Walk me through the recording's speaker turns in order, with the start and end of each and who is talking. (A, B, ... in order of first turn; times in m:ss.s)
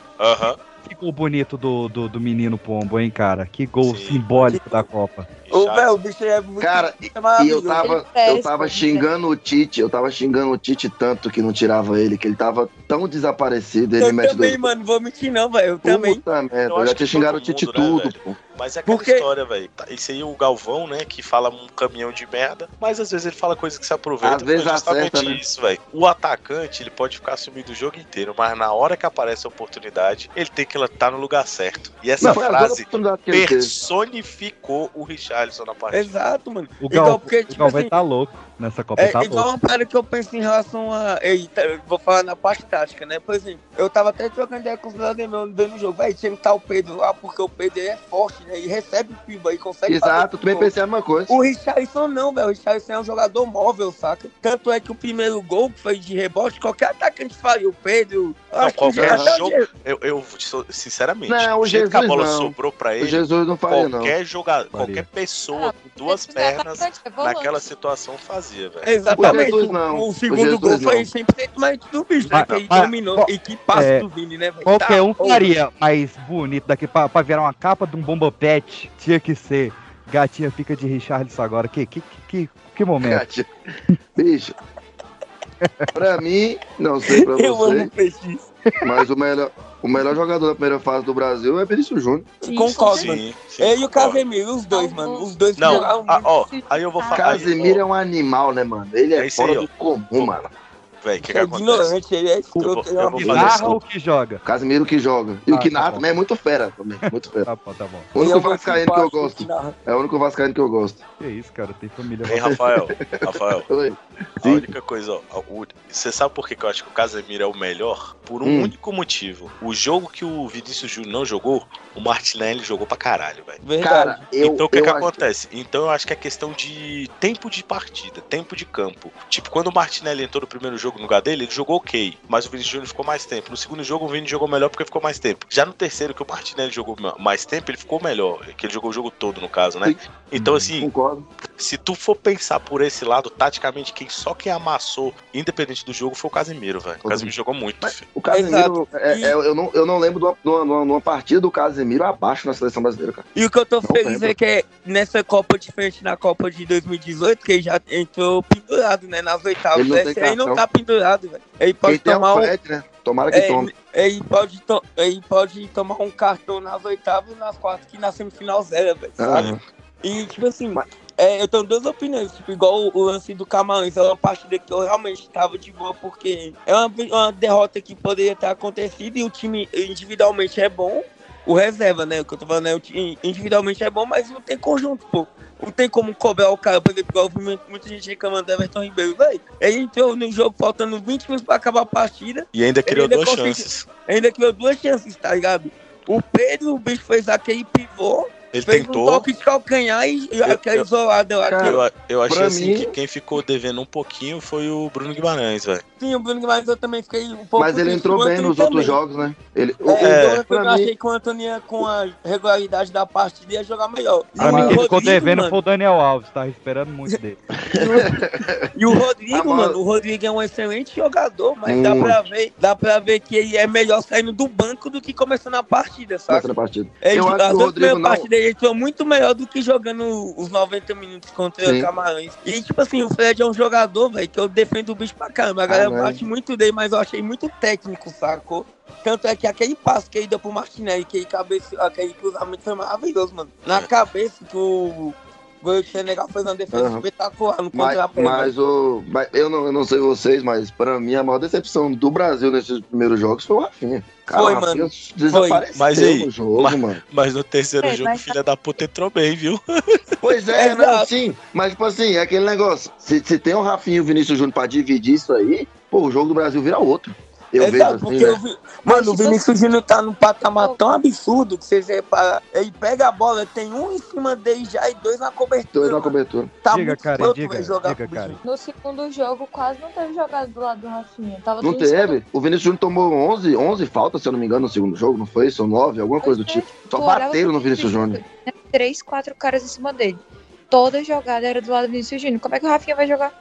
0:00.2-0:00.6 A
0:00.8-0:05.3 B
0:03.8-0:04.5 A
0:04.5-0:04.8 C
0:05.4-0:06.0 A
0:05.5-0:07.9 C
0:06.6-0:14.7 D
0:07.8-0:09.1 E
0:14.0-0:16.2 C
0:15.8-0:18.4 D
0:16.7-0:36.1 A
0:18.9-0:19.3 C
0:24.2-0:25.4 D
0:32.2-0:33.7 D
0:35.9-0:37.9 C
0:36.8-0:39.5 B
0:39.0-0:50.7 C
0:49.9-0:51.4 D
0:51.3-0:59.7 C
0:58.6-1:08.9 A
0:59.0-0:59.3 D
1:01.3-1:04.1 D
1:04.7-1:05.1 B
1:05.5-1:07.7 E
1:08.8-1:15.5 C
1:09.1-1:11.1 D
1:09.2-1:09.4 B
1:12.3-1:14.1 B
1:14.7-1:23.2 B
1:23.0-1:23.5 D
1:24.2-1:24.6 D
1:25.6-1:25.9 B
1:26.0-1:27.9 D
1:27.1-1:28.5 C
1:28.8-1:32.3 D
1:32.4-1:33.2 E
1:32.4-1:36.3 C
1:32.9-1:34.2 A
1:34.7-1:37.4 E
1:35.6-1:37.8 A
1:37.1-1:40.5 D
1:39.2-1:40.3 A
1:41.0-1:42.0 A
1:41.2-1:43.7 C
1:42.6-1:43.8 A
1:43.1-1:44.4 B
1:43.2-1:43.8 D
1:44.4-1:47.5 D
1:45.5-1:46.1 B
1:47.0-1:48.1 B
1:48.1-1:51.0 D
1:48.2-1:49.7 C
1:51.2-1:52.5 B
1:52.2-1:53.7 A
1:53.2-1:54.7 D
1:54.4-2:03.6 A
1:58.4-1:58.7 D
2:03.6-2:04.2 C
2:03.8-2:05.2 D
2:04.4-2:20.9 A
2:20.4-2:20.7 B
2:20.7-2:21.3 D
2:21.6-2:28.0 A
2:27.0-2:33.2 D
2:28.3-2:29.3 C
2:33.4-2:42.5 C
2:33.8-2:34.4 D
2:39.7-2:40.6 D
2:41.8-2:43.7 D
2:43.3-3:21.8 C
2:49.2-2:49.6 D
3:12.5-3:13.9 A
3:18.5-3:19.3 A
3:20.4-3:20.9 A
3:21.4-3:22.9 D
3:21.6-3:25.8 A
3:26.0-3:29.0 C
3:27.6-3:30.9 D
3:29.8-3:35.6 C
3:30.0-3:30.4 A
3:34.4-3:34.9 D
3:34.4-3:37.4 B
3:37.7-3:38.6 D
3:37.8-3:38.2 C
3:38.7-3:46.5 C
3:39.3-3:39.8 D
3:41.6-3:42.3 D
3:46.3-3:48.3 D
3:47.0-4:08.5 C
3:51.6-3:51.9 D
3:55.7-3:56.2 D
4:06.7-4:07.0 D
4:07.7-4:17.0 D
4:14.3-4:15.6 C
4:15.8-4:20.0 A
4:17.8-4:18.4 E
4:20.2-4:28.4 D
4:20.6-4:21.1 C
4:27.6-4:38.4 C
4:28.9-4:29.4 E
4:35.7-4:36.5 D
4:36.7-4:38.4 B
4:38.4-4:42.2 E
4:41.6-4:48.2 D
4:46.2-4:53.3 E